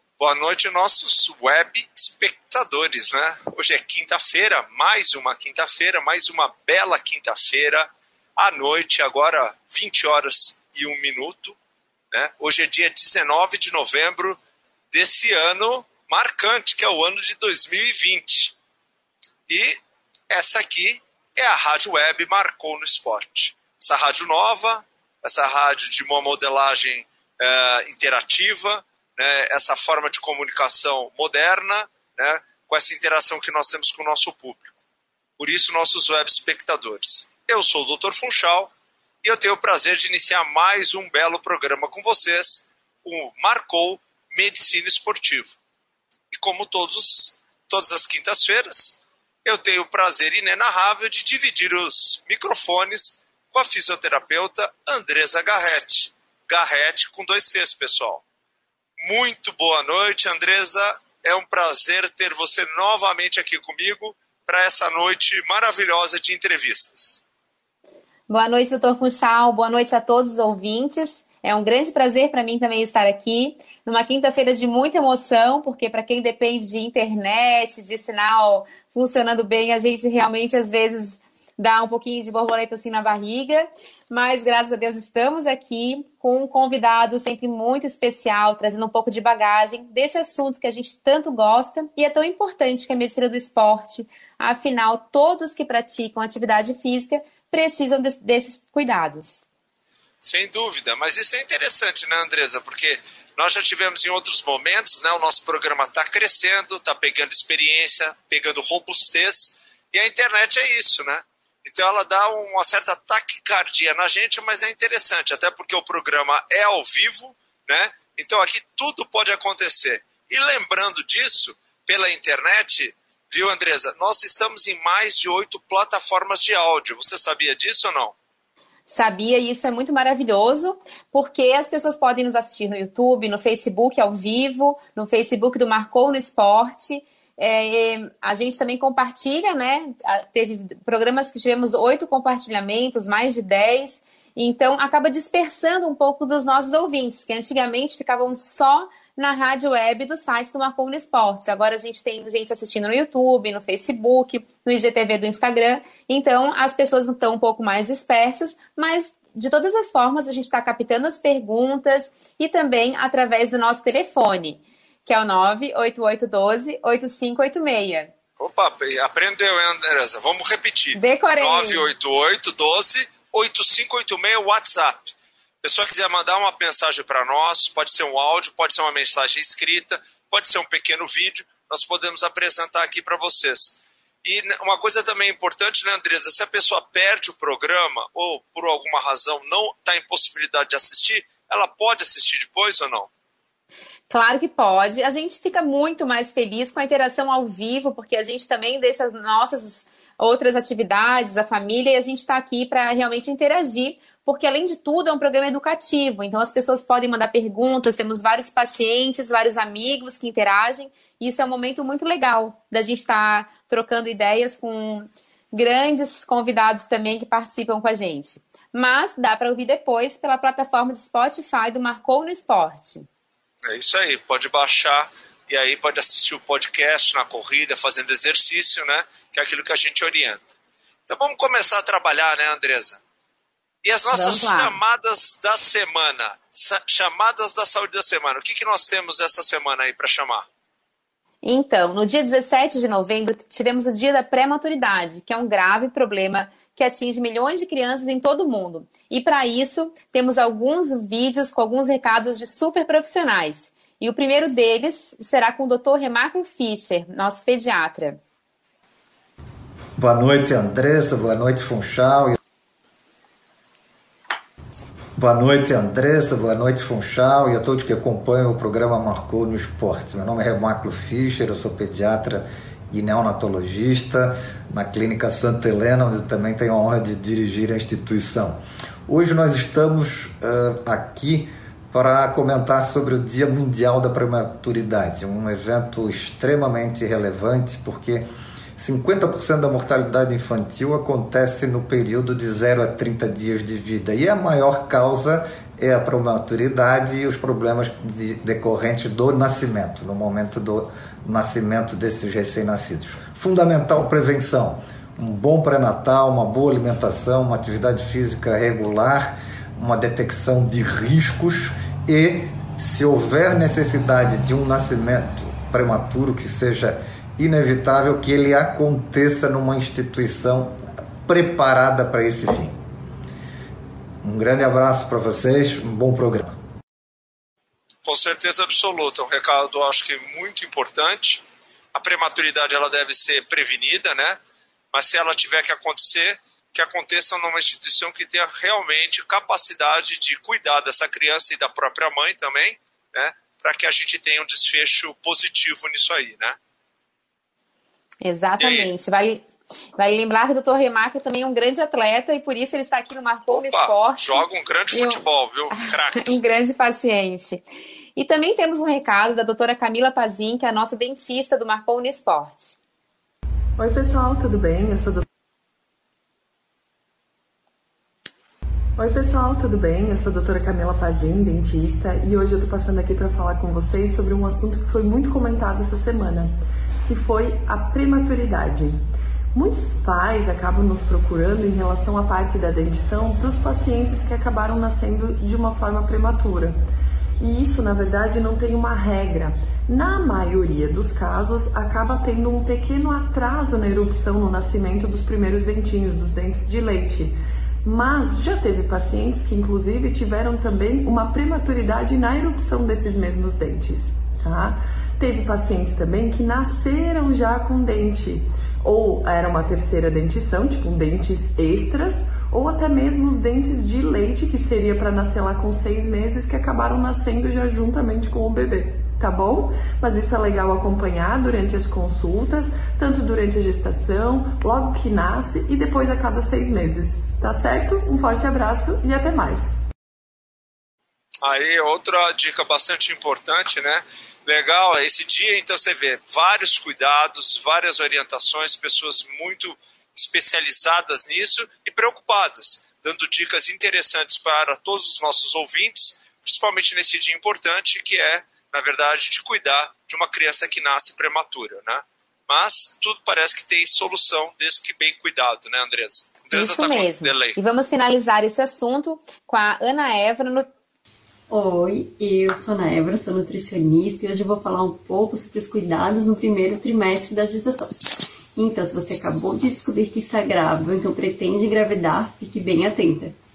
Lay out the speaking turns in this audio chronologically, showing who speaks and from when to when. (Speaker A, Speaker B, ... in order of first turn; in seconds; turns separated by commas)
Speaker A: 0.2-11.6, Speaker A: 12.1-14.4, Speaker A: 14.9-18.6, Speaker A: 19.5-34.7, Speaker A: 35.4-38.7, Speaker A: 39.2-45.6, Speaker A: 46.3-58.2, Speaker A: 59.0-67.2, Speaker B: 68.3-99.4, Speaker A: 100.2-128.2, Speaker B: 128.9-168.1, Speaker A: 168.4-175.1, Speaker B: 170.9-171.9, Speaker A: 175.6-193.1, Speaker B: 194.1-223.1, Speaker A: 223.7-230.4, Speaker A: 231.1-233.0, Speaker A: 233.8-240.5, Speaker B: 234.1-234.8, Speaker B: 241.4-258.2, Speaker C: 260.0-262.4, Speaker C: 265.2-322.8, Speaker C: 324.2-326.6, Speaker A: 328.1-331.4, Speaker A: 331.9-334.4, Speaker A: 334.9-346.6, Speaker B: 348.2-362.8, Speaker A: 348.6-348.9, Speaker A: 353.5-356.4, Speaker D: 363.8-365.2, Speaker D: 369.0-386.8, Speaker D: 387.4-429.8, Speaker A: 431.4-457.6, Speaker B: 456.5-460.7, Speaker E: 461.5-473.4